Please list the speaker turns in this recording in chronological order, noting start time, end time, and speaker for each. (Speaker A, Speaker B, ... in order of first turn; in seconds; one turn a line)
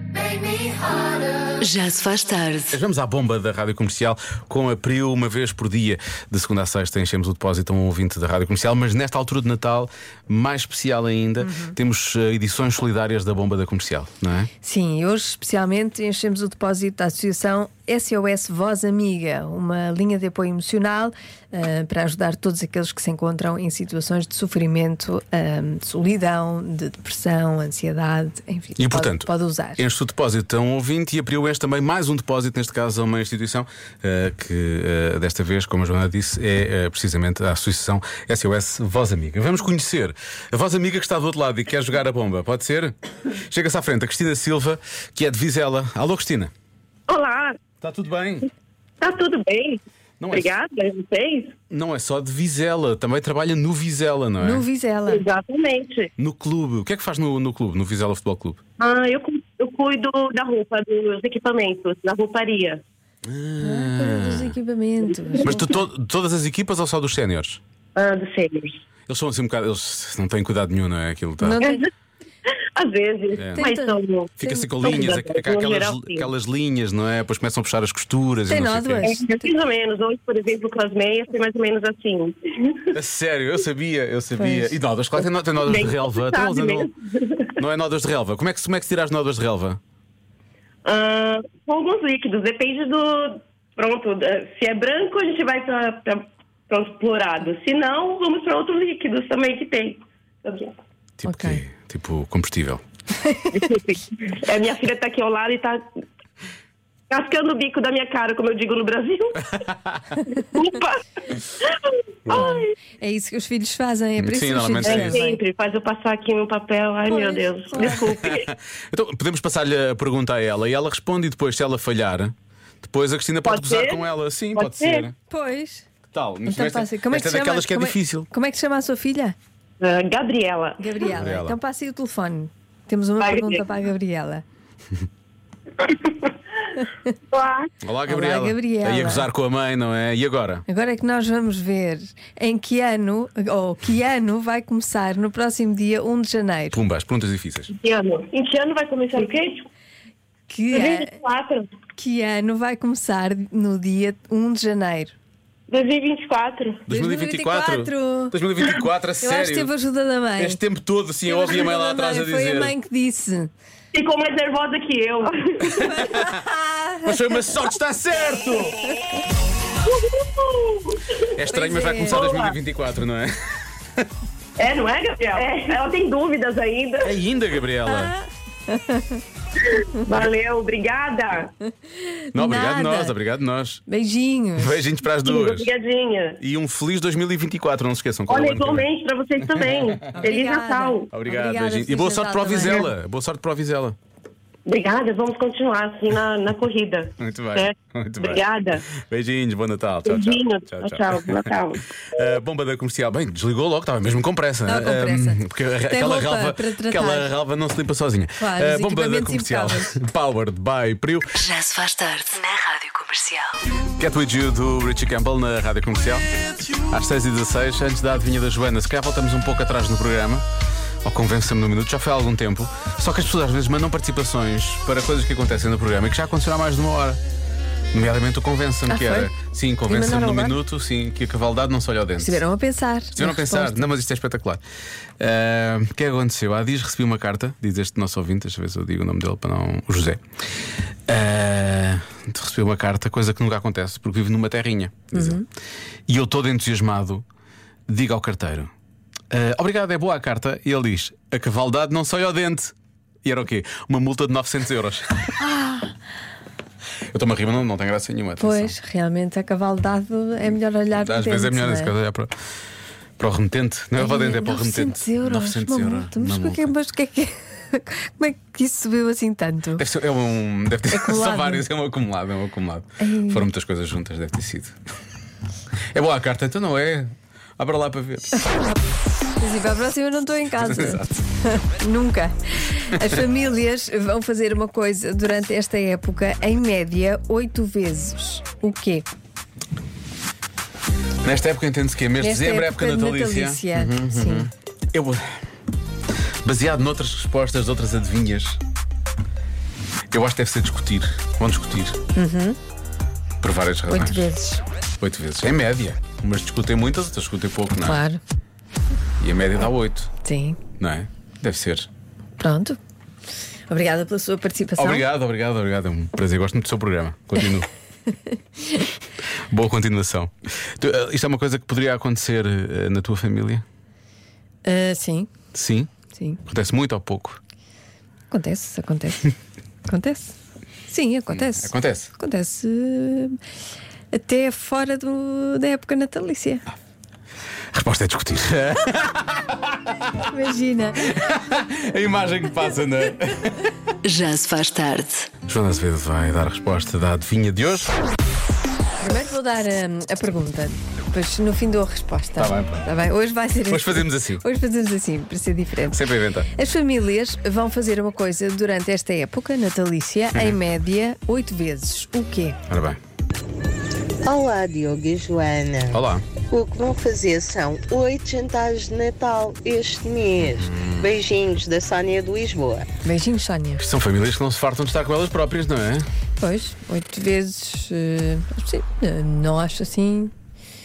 Speaker A: 1.6-2.7
Speaker B: 2.7-14.5
Speaker C: 11.4-11.8
Speaker C: 14.6-29.8
Speaker B: 28.8-42.9
Speaker B: 43.5-46.5
Speaker D: 47.1-47.6
Speaker B: 47.8-48.5
Speaker D: 49.0-49.8
Speaker B: 50.2-50.5
Speaker D: 50.3-51.5
Speaker B: 51.7-54.6
Speaker C: 54.4-55.2
Speaker D: 55.1-56.1
Speaker B: 56.2-58.6
Speaker D: 58.8-62.8
Speaker B: 63.2-64.5
Speaker C: 63.6-65.8
Speaker B: 65.4-67.6
Speaker D: 68.0-68.8
Speaker B: 69.1-71.6
Speaker C: 71.4-71.8
Speaker D: 72.8-76.3
Speaker B: 73.3-73.7
Speaker C: 73.6-74.6
Speaker B: 74.4-79.1
Speaker C: 78.5-79.5
Speaker D: 79.0-82.8
Speaker B: 82.9-86.9
Speaker C: 84.4-84.7
Speaker D: 85.6-87.5
Speaker B: 87.6-89.8
Speaker D: 90.8-100.7
Speaker B: 101.2-102.8
Speaker C: 101.2-101.6
Speaker C: 103.2-103.5
Speaker D: 103.5-105.8
Speaker D: 107.1-109.5
Speaker D: 110.3-111.0
Speaker D: 111.6-112.7
Speaker C: 112.3-115.4
Speaker B: 114.2-115.2
Speaker D: 114.8-118.4
Speaker C: 117.1-118.1
Speaker B: 117.8-125.1
Speaker D: 123.4-124.0
Speaker D: 124.5-125.1
Speaker C: 125.3-125.8
Speaker B: 126.1-128.3
Speaker C: 126.5-129.3
Speaker D: 129.8-130.8
Speaker C: 130.8-134.4
Speaker B: 131.1-131.6
Speaker D: 133.2-133.6
Speaker D: 137.3-137.7
Speaker B: 137.8-140.6
Speaker C: 138.1-139.3
Speaker C: 140.7-146.8
Speaker B: 146.7-147.7
Speaker D: 147.7-149.7
Speaker C: 150.5-151.1
Speaker D: 150.7-151.7
Speaker C: 151.9-155.1
Speaker D: 155.7-156.8
Speaker B: 156.8-159.7
Speaker C: 156.9-158.3
Speaker C: 159.2-160.6
Speaker B: 160.4-162.8
Speaker C: 161.2-163.5
Speaker D: 163.9-166.0
Speaker C: 165.7-167.1
Speaker B: 165.9-166.3
Speaker B: 167.0-168.8
Speaker D: 169.9-171.0
Speaker B: 171.3-173.3
Speaker C: 171.4-172.3
Speaker D: 172.1-172.5
Speaker D: 174.6-177.1
Speaker B: 177.0-178.1
Speaker C: 177.8-179.2
Speaker D: 180.0-181.5
Speaker C: 182.1-183.1
Speaker B: 182.3-183.8
Speaker C: 183.9-184.8
Speaker B: 184.6-185.7
Speaker D: 185.2-186.4
Speaker B: 186.4-188.9
Speaker D: 188.3-191.1
Speaker C: 190.1-192.9
Speaker B: 191.1-194.0
Speaker D: 194.7-198.8
Speaker B: 197.2-198.5
Speaker B: 199.0-201.5
Speaker D: 200.1-201.9
Speaker B: 202.0-211.4
Speaker C: 204.7-207.3
Speaker C: 208.4-209.9
Speaker A: 211.4-213.5
Speaker B: 213.9-220.4
Speaker B: 221.0-227.2
Speaker B: 227.9-232.4
Speaker C: 228.9-229.3
Speaker C: 229.9-230.6
Speaker C: 232.2-233.9
Speaker B: 233.1-234.6
Speaker B: 235.2-240.2
Speaker B: 241.1-245.4
Speaker C: 245.1-245.4
Speaker B: 246.1-247.2
Speaker B: 247.9-248.7
Speaker B: 249.3-252.7
Speaker B: 253.2-255.4
Speaker C: 255.4-255.9
Speaker B: 257.1-258.8
Speaker C: 258.4-261.9
Speaker B: 260.9-262.3
Speaker B: 263.2-266.7
Speaker C: 263.9-269.8
Speaker B: 269.8-274.7
Speaker C: 270.9-271.6
Speaker C: 273.0-273.5
Speaker B: 275.9-278.3
Speaker C: 279.4-289.1
Speaker B: 280.6-281.1
Speaker B: 291.2-295.2
Speaker C: 292.2-294.5
Speaker B: 296.4-298.6
Speaker B: 300.1-302.0
Speaker C: 302.1-302.6
Speaker B: 303.4-304.3
Speaker C: 303.9-304.6
Speaker B: 305.0-308.0
Speaker C: 307.8-308.2
Speaker B: 309.2-310.1
Speaker C: 310.2-310.6
Speaker B: 310.8-311.9
Speaker C: 312.4-312.8
Speaker C: 313.7-315.1
Speaker B: 314.8-317.7
Speaker B: 319.5-323.6
Speaker C: 324.6-325.3
Speaker B: 325.5-325.9
Speaker C: 326.1-326.4
Speaker B: 326.4-327.4
Speaker C: 328.3-329.3
Speaker C: 329.9-330.4
Speaker C: 330.9-333.4
Speaker B: 331.3-332.1
Speaker C: 334.1-336.7
Speaker B: 337.7-340.0
Speaker C: 340.2-341.1
Speaker B: 341.1-343.7
Speaker A: 344.0-345.3
Speaker B: 345.5-347.9
Speaker C: 349.0-356.0
Speaker B: 352.4-352.9
Speaker B: 353.7-354.4
Speaker B: 355.9-356.5
Speaker C: 356.5-362.6
Speaker B: 362.7-363.0
Speaker E: 364.2-372.9
Speaker B: 365.9-366.2
Speaker B: 370.4-371.1
Speaker C: 373.0-373.9
Speaker B: 373.8-376.1
Speaker C: 376.4-380.3